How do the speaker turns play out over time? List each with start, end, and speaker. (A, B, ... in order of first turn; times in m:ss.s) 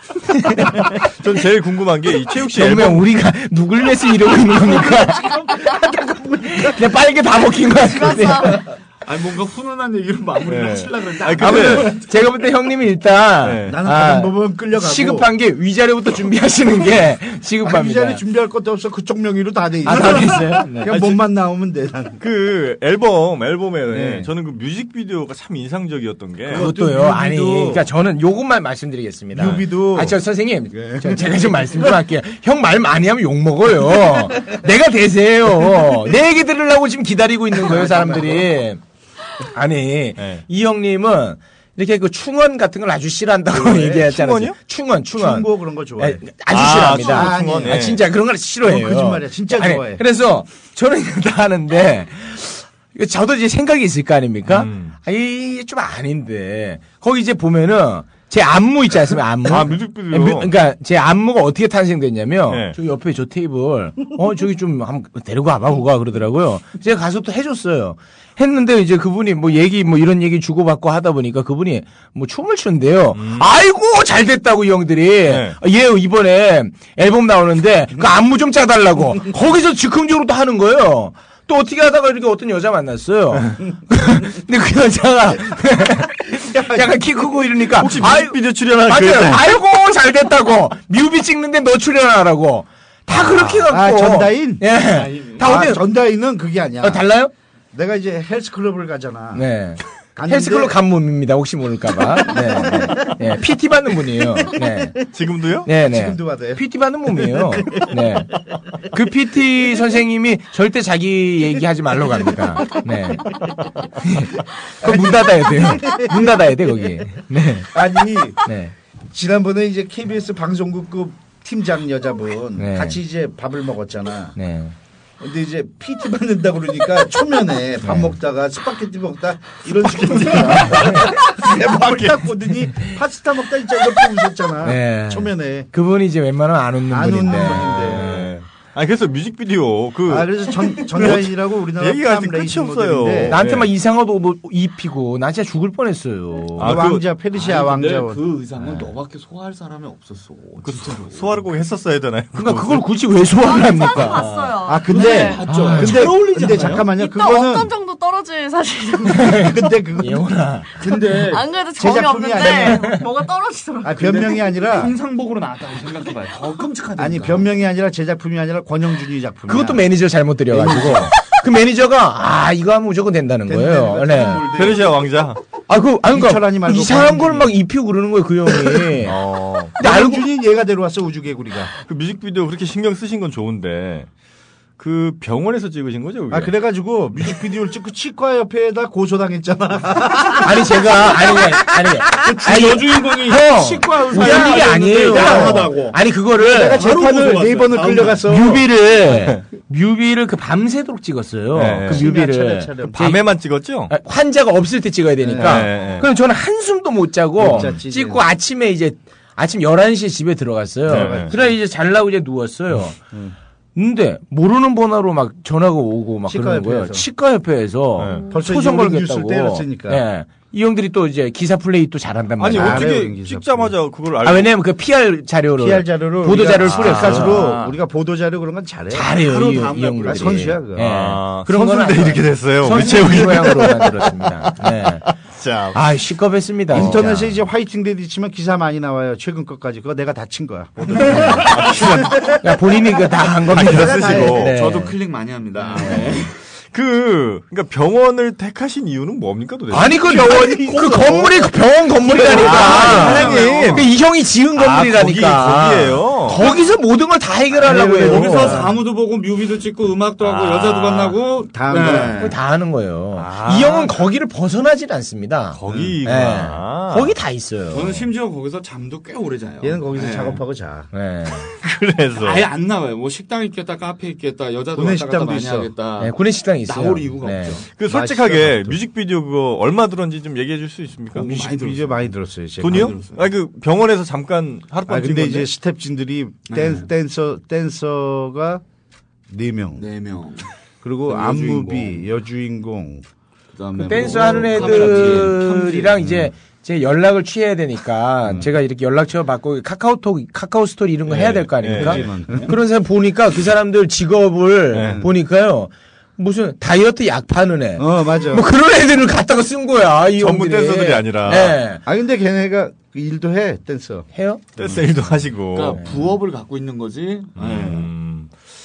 0:00.4-0:00.8 A
0:00.5-0:03.1 B
0:02.5-0:05.7 A
0:04.6-0:06.8 C
0:06.4-0:08.6 A
0:07.8-0:08.6 D
0:09.0-0:12.0 E
0:10.5-0:12.0 B
0:11.4-0:18.2 A
0:13.4-0:13.8 B
0:13.7-0:15.3 C
0:17.6-0:22.2 C
0:19.8-0:20.9 A
0:20.9-0:21.2 B
0:22.2-0:26.7 B
0:23.9-0:24.3 C
0:26.5-0:27.9 C
0:26.5-0:38.8 A
0:29.3-0:30.2 C
0:30.7-0:31.9 C
0:37.6-0:38.5 C
0:39.5-0:45.5 A
0:40.2-0:40.4 B
0:43.6-0:44.1 C
0:43.6-0:44.6 B
0:45.1-0:48.0 C
0:46.0-1:35.8 A
0:46.5-0:48.0 B
0:48.6-0:50.0 C
0:54.5-0:55.0 B
0:59.5-1:00.5 B
1:02.5-1:02.8 B
1:13.2-1:13.5 B
1:15.3-1:15.6 B
1:26.3-1:27.4 C
1:27.8-1:29.4 B
1:33.2-1:34.6 C
1:34.8-1:35.6 E
1:35.4-1:37.1 C
1:36.8-1:37.3 A
1:37.7-1:39.4 C
1:39.3-1:45.0 A
1:40.2-1:40.8 C
1:42.2-1:43.2 C
1:44.4-1:45.1 C
1:45.1-1:45.7 B
1:45.7-1:48.3 A
1:45.8-1:48.1 C
1:48.9-1:53.4 A
1:54.0-1:57.7 A
1:54.8-1:56.6 C
1:57.7-1:58.5 C
1:58.4-1:58.7 A
1:59.1-2:04.4 C
2:02.6-2:03.0 A
2:04.4-2:04.7 A
2:05.2-2:15.7 C
2:07.8-2:08.2 A
2:10.1-2:12.1 B
2:10.8-2:11.0 A
2:14.6-2:18.3 A
2:16.9-2:18.3 C
2:17.8-2:23.7 B
2:20.1-2:23.4 C
2:23.3-2:26.8 A
2:26.6-2:28.2 C
2:26.6-2:27.0 B
2:27.3-2:31.5 E
2:28.6-2:28.9 A
2:30.6-2:32.9 B
2:32.3-2:34.3 A
2:33.4-2:35.4 D
2:34.1-2:36.9 E
2:34.6-2:37.7 C
2:35.5-2:36.2 A
2:36.8-2:39.5 D
2:39.1-2:40.7 A
2:39.4-2:40.3 C
2:40.8-2:41.5 E
2:41.1-2:44.4 D
2:41.8-2:42.9 C
2:42.6-2:43.0 A
2:43.8-2:44.9 C
2:44.0-2:47.4 E
2:47.0-2:49.9 C
2:49.5-2:54.4 A
2:50.5-2:51.1 C
2:53.5-2:55.2 C
2:54.5-2:55.4 B
2:55.7-2:59.2 A
2:56.0-2:57.6 C
2:58.5-2:58.9 C
2:59.0-2:59.8 B
2:59.8-3:00.2 A
2:59.8-3:01.7 C
3:01.9-3:04.1 B
3:04.8-3:06.5 B
3:06.3-3:12.3 C
3:10.4-3:16.8 A
3:12.2-3:16.0 E
3:14.2-3:15.7 C
3:16.4-3:18.7 C
3:16.5-3:18.2 E
3:18.3-3:23.2 A
3:19.1-3:19.4 B
3:21.5-3:22.1 B
3:21.9-3:23.0 C
3:22.9-3:23.9 B
3:23.9-3:33.0 A
3:25.2-3:25.7 C
3:25.4-3:26.1 B
3:27.4-3:28.3 C
3:30.9-3:31.6 C
3:30.9-3:31.3 B
3:33.8-3:42.9 A
3:36.3-3:37.1 C
3:38.0-3:38.3 B
3:38.3-3:40.0 C
3:42.4-3:44.5 B
3:42.5-3:43.8 C
3:44.2-3:47.4 A
3:45.6-3:49.1 C
3:46.6-3:47.7 B
3:48.9-3:55.1 A
3:49.2-3:50.4 E
3:50.0-3:50.9 C
3:50.8-3:55.8 B
3:55.7-3:57.4 A
3:56.7-4:02.3 C
4:01.1-4:01.4 A
4:01.4-4:02.4 B
4:02.4-4:05.0 A
4:03.5-4:04.6 B
4:03.5-4:04.5 C
4:04.3-4:06.3 E
4:05.6-4:06.2 B
4:06.7-4:10.0 B
4:09.7-4:18.7 A
4:10.0-4:11.5 C
4:12.1-4:13.5 C
4:12.2-4:13.9 E
4:12.3-4:13.9 B
4:14.6-4:16.4 B
4:17.6-4:22.4 E
4:17.7-4:18.8 C
4:20.2-4:21.2 B
4:21.5-4:22.3 C
4:22.2-4:28.0 A
4:23.2-4:24.0 B
4:25.5-4:27.2 B
4:27.7-4:30.4 E
4:29.6-4:30.9 C
4:30.9-4:31.5 A
4:31.6-4:32.5 B
4:32.2-4:37.7 E
4:34.8-4:35.7 C
4:36.0-4:37.6 A
4:37.8-4:41.3 B
4:37.8-4:38.8 C
4:41.1-4:42.1 E
4:41.2-4:43.0 C
4:42.6-4:43.3 E
4:42.6-4:45.5 B
4:44.9-4:48.6 C
4:46.5-4:46.9 E
4:49.3-4:49.9 C
4:49.8-4:50.5 E
4:50.8-4:53.0 C
4:51.1-4:52.0 E
4:53.5-4:56.1 E
4:53.8-5:11.8 A
5:01.1-5:02.2 B
5:01.7-5:02.5 C
5:04.7-5:05.0 B
5:04.8-5:05.1 C
5:07.8-5:08.5 C
5:10.2-5:11.6 B
5:11.8-5:14.1 C
5:14.2-5:14.4 A
5:14.6-5:15.8 B
5:15.5-5:17.9 E
5:17.4-5:18.3 B